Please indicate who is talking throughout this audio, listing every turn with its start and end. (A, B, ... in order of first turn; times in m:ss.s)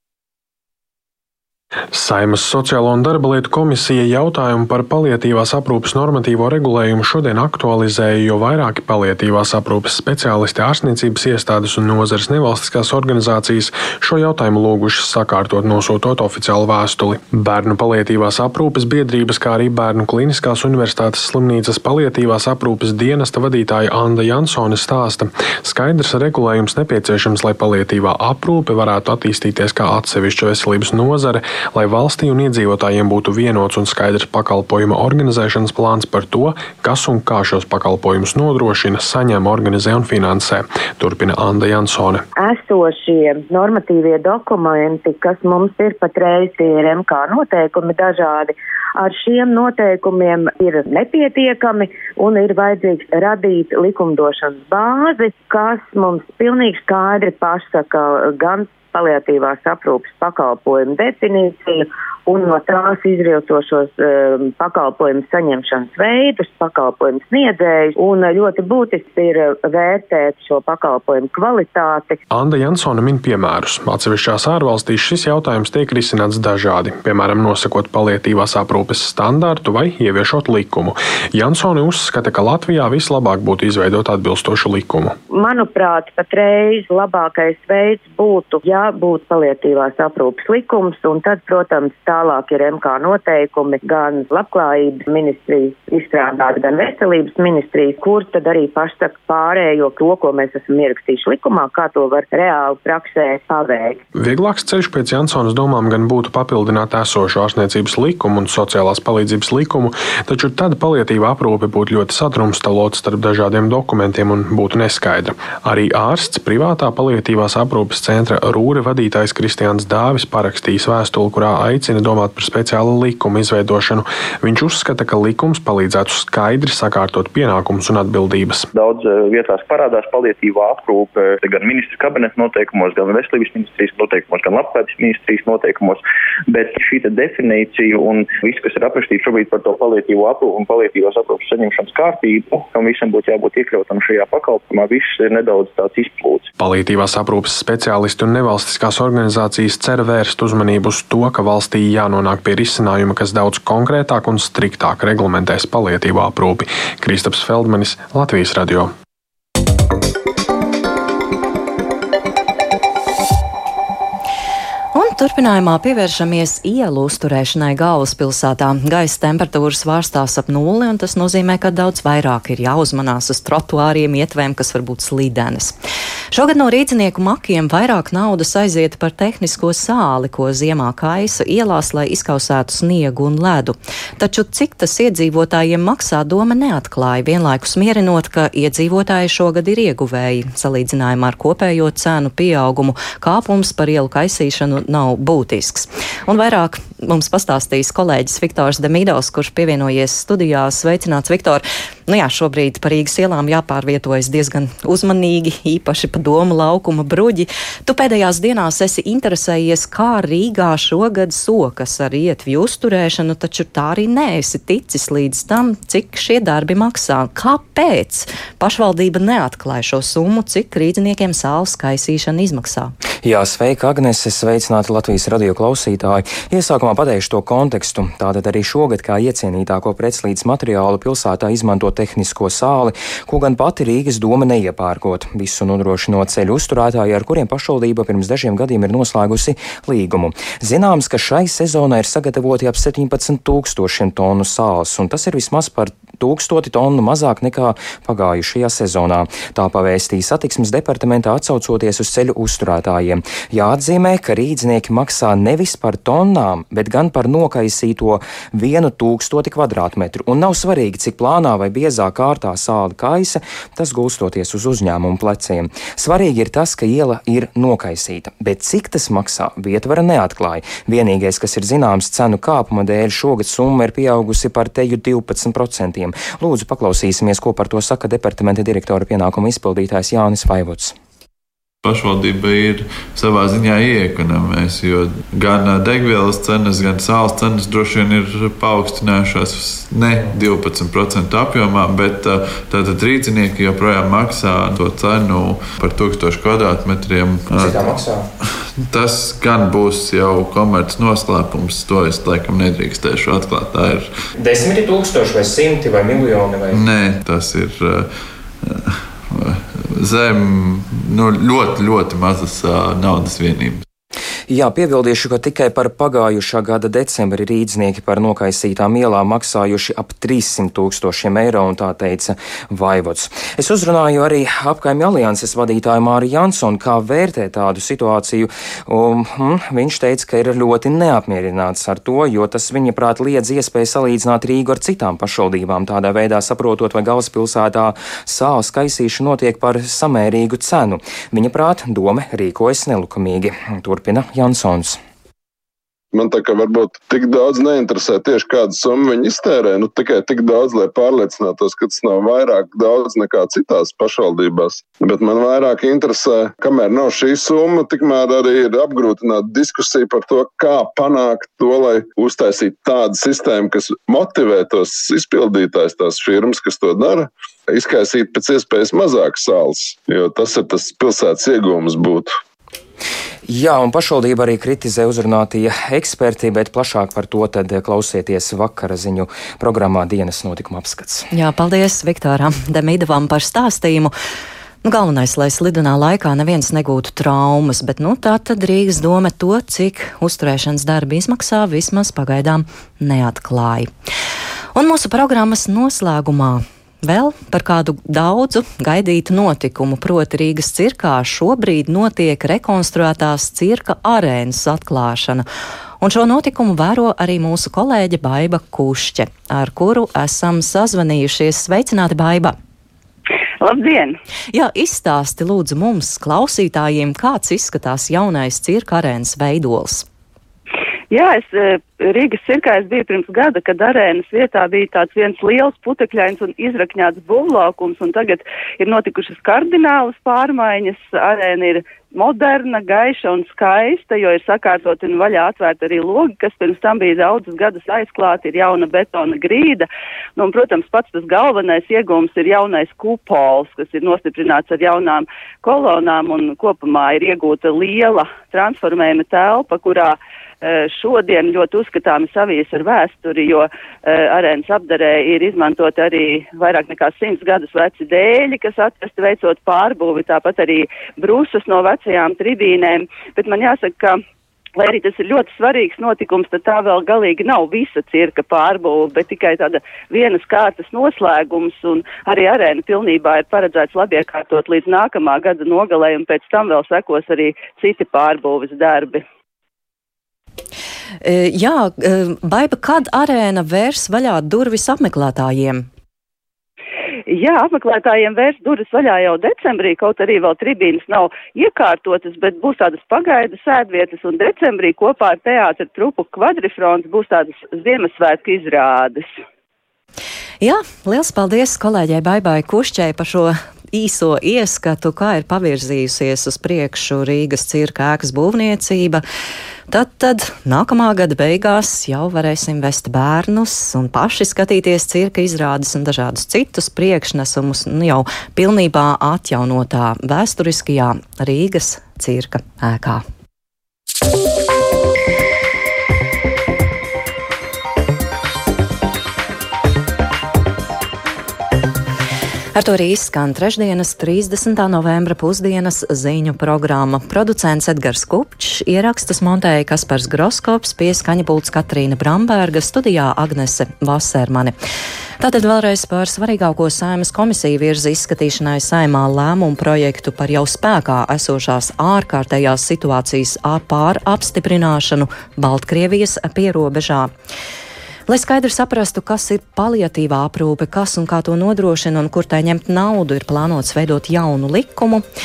0:01.9-0:42.2 A
0:42.4-1:12.2 B
1:12.3-1:25.2 A
1:25.3-1:44.0 B
1:44.2-2:08.7 A
2:08.7-2:26.5 C
2:26.6-2:38.9 A
2:44.9-2:55.8 D
2:56.3-3:42.9 D
3:43.2-4:41.0 E
4:41.8-4:57.9 F
4:57.6-4:58.2 E
4:58.8-5:04.1 F
5:04.4-5:06.8 E
5:06.7-5:08.1 F
5:08.6-5:13.8 F
5:14.5-5:45.0 E
5:46.1-6:12.3 G
6:13.4-6:21.3 E
6:21.3-6:24.1 D
6:24.8-6:33.9 D
6:34.8-6:45.4 D
6:46.0-6:52.6 D
6:53.6-6:54.2 H
6:54.5-7:00.1 D
7:01.1-7:44.2 H
7:44.8-7:59.2 H
8:01.2-8:05.9 D
8:07.3-8:19.3 H
8:20.6-8:29.2 D
8:29.9-8:43.2 D
8:52.8-9:04.8 D
9:05.4-9:17.3 D
9:18.3-9:25.2 D